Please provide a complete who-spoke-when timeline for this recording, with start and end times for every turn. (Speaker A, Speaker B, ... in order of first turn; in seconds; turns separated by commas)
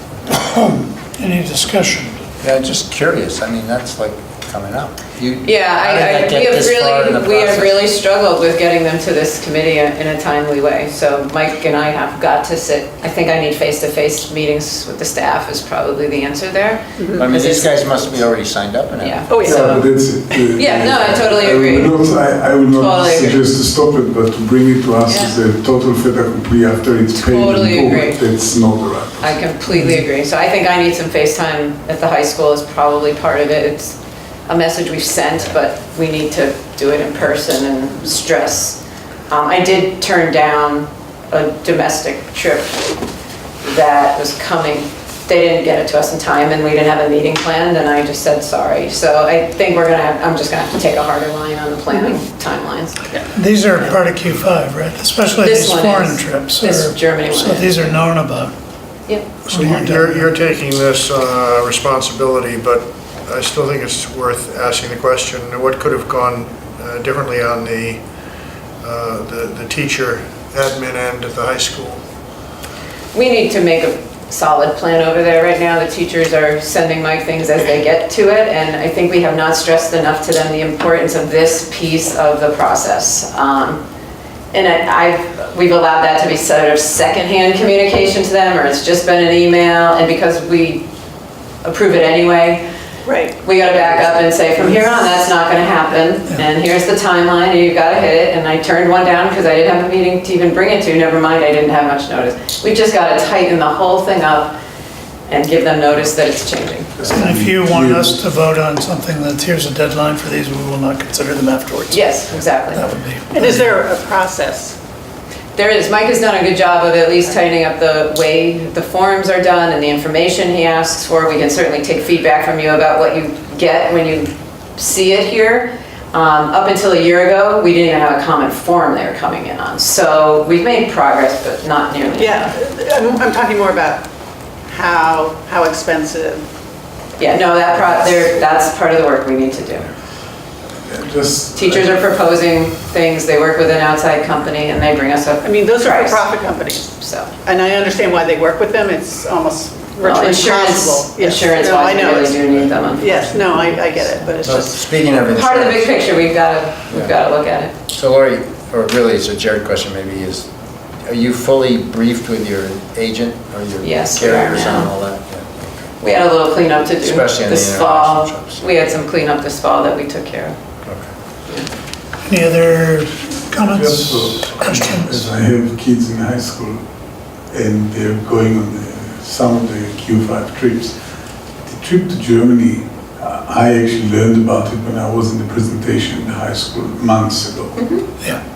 Speaker A: 0.3-2.2, Speaker B: 2.4-7.9, Speaker C: 5.4-18.1, Speaker D: 17.0-17.3, Speaker B: 17.2-19.3, Speaker C: 19.0-19.9, Speaker D: 19.3-19.8, Speaker E: 19.4-29.4, Speaker C: 20.6-22.0, Speaker C: 22.7-23.4, Speaker C: 25.1-25.4, Speaker C: 27.1-28.2, Speaker C: 29.2-42.9, Speaker A: 29.7-30.0, Speaker C: 43.6-53.0, Speaker A: 53.3-58.5, Speaker C: 55.4-58.0, Speaker C: 59.1-59.4, Speaker A: 59.5-60.3, Speaker F: 59.5-68.0, Speaker F: 68.8-72.0, Speaker C: 73.1-83.8, Speaker C: 84.5-90.9, Speaker C: 91.6-92.7, Speaker D: 93.0-93.5, Speaker C: 93.4-104.5, Speaker C: 105.3-107.2, Speaker E: 107.0-108.2, Speaker A: 107.1-113.7, Speaker C: 111.9-112.8, Speaker D: 113.3-114.8, Speaker C: 115.6-132.5, Speaker D: 132.2-134.1, Speaker D: 134.7-136.4, Speaker C: 137.2-139.9, Speaker E: 140.9-142.1, Speaker C: 141.5-146.3, Speaker D: 145.4-146.9, Speaker C: 147.0-147.3, Speaker D: 147.4-152.4, Speaker C: 150.0-153.6, Speaker B: 152.6-153.5, Speaker D: 152.9-154.8, Speaker B: 154.4-156.0, Speaker C: 155.3-157.8, Speaker B: 157.9-160.5, Speaker B: 161.0-165.8, Speaker C: 163.8-164.9, Speaker C: 166.0-170.6, Speaker B: 167.0-168.7, Speaker A: 172.2-175.3, Speaker E: 173.6-176.8, Speaker E: 177.5-181.0, Speaker E: 181.7-187.8, Speaker C: 187.8-188.1